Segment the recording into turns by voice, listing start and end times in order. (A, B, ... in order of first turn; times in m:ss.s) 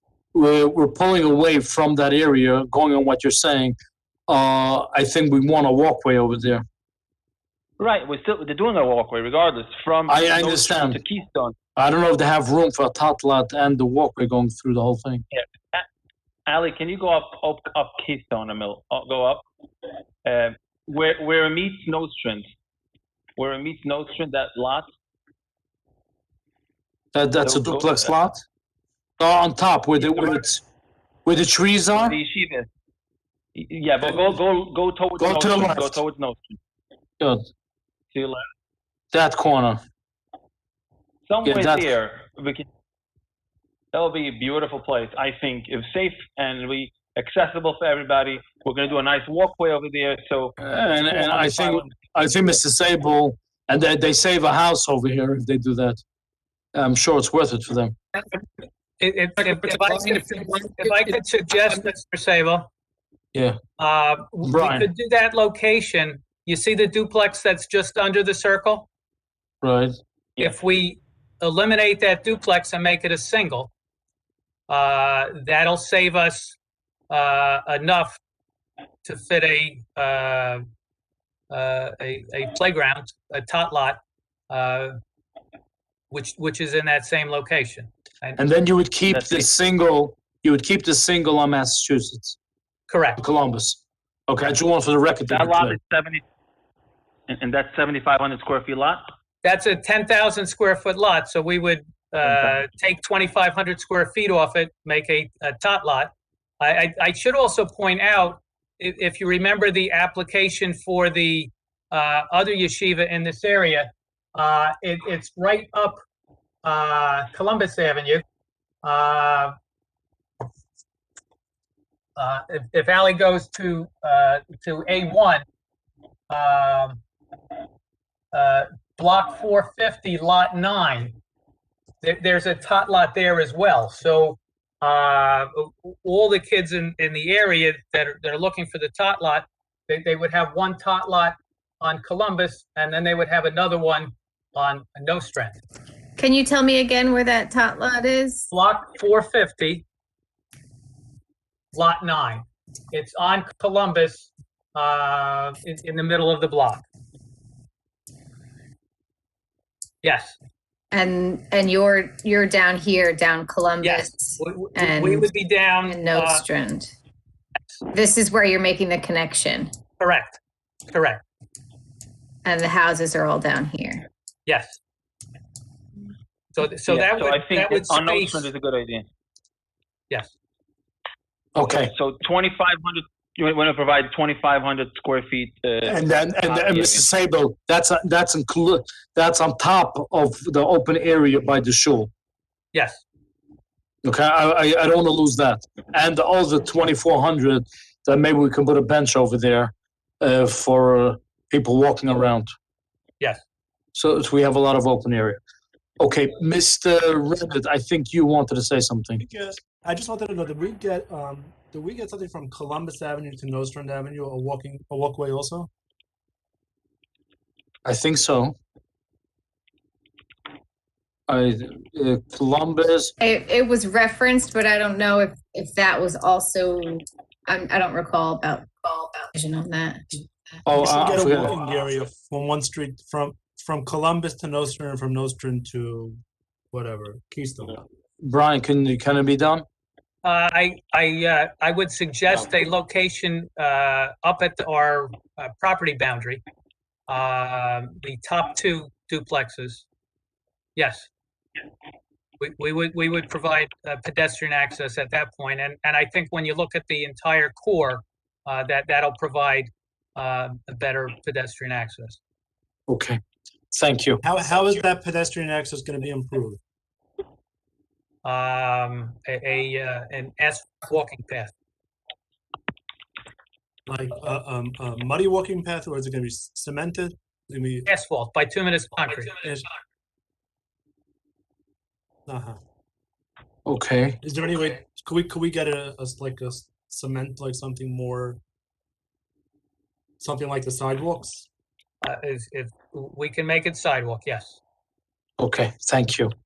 0:00.3-0:03.8 A
0:04.3-0:06.6 A
0:07.8-0:11.6 B
0:10.1-0:11.0 A
0:11.8-0:15.2 A
0:15.3-0:15.9 B
0:16.5-0:19.5 B
0:20.2-0:22.5 B
0:23.4-0:24.9 B
0:27.1-0:28.4 A
0:27.4-0:28.1 B
0:29.2-0:30.6 A
0:30.0-0:30.4 B
0:31.2-0:32.2 A
0:32.0-0:32.7 B
0:33.6-0:36.6 B
0:35.2-0:36.0 A
0:38.1-0:38.5 B
0:39.1-0:39.8 A
0:41.3-0:42.7 B
0:41.4-0:41.9 A
0:43.9-0:50.6 B
0:50.6-0:56.0 A
0:51.2-0:51.8 B
0:56.7-0:58.0 A
0:59.0-1:02.7 C
0:59.4-1:01.1 A
1:03.8-1:08.9 C
1:04.4-1:04.9 A
1:09.6-1:10.0 A
1:10.4-1:13.7 C
1:14.7-1:16.6 C
1:17.1-1:18.2 C
1:19.0-1:20.6 C
1:21.5-1:25.0 C
1:26.1-1:28.4 C
1:28.4-1:32.4 A
1:29.1-1:29.5 B
1:32.9-1:33.2 C
1:33.2-1:35.8 A
1:35.3-1:36.2 B
1:37.3-1:39.1 B
1:39.4-1:56.0 C
1:56.6-1:58.2 C
1:58.8-1:59.6 C
2:02.2-2:05.4 C
2:06.3-2:07.0 C
2:08.3-2:11.2 C
2:12.0-2:25.6 C
2:26.2-2:28.5 D
2:28.5-2:29.8 C
2:31.7-2:36.8 C
2:40.0-2:40.4 C
2:40.9-2:45.3 D
2:43.8-2:46.4 C
2:45.9-2:46.9 D
2:47.9-2:49.7 D
2:50.0-2:50.4 C
2:50.9-2:51.2 C
2:52.4-2:54.1 D
2:54.5-2:54.8 C
2:56.6-2:58.5 C
2:56.9-2:59.1 B
3:01.6-3:01.9 A
3:01.6-3:07.1 B
3:05.8-3:12.1 A
3:12.7-3:13.0 C
3:14.0-3:22.5 A
3:23.9-3:25.4 A
3:26.0-3:29.2 A
3:29.2-3:35.7 E
3:37.8-3:38.6 A
3:41.3-3:43.1 A
3:43.2-3:50.3 D
3:50.7-3:51.6 A
3:50.7-3:56.2 E
3:56.7-3:57.8 E
3:58.2-3:59.6 A
4:00.2-4:06.4 C
4:07.1-4:09.8 C
4:10.8-4:11.1 C
4:12.4-4:22.2 C
4:22.9-4:23.2 A
4:23.7-4:24.2 A
4:24.2-4:26.6 E
4:28.2-4:31.5 C
4:33.9-4:37.9 E
4:37.9-4:39.3 C
4:39.4-4:39.7 E
4:42.3-4:42.6 E
4:43.7-4:44.2 A
4:44.2-4:48.4 E
4:50.2-4:51.5 E
4:52.0-4:54.6 C
4:55.4-4:56.3 A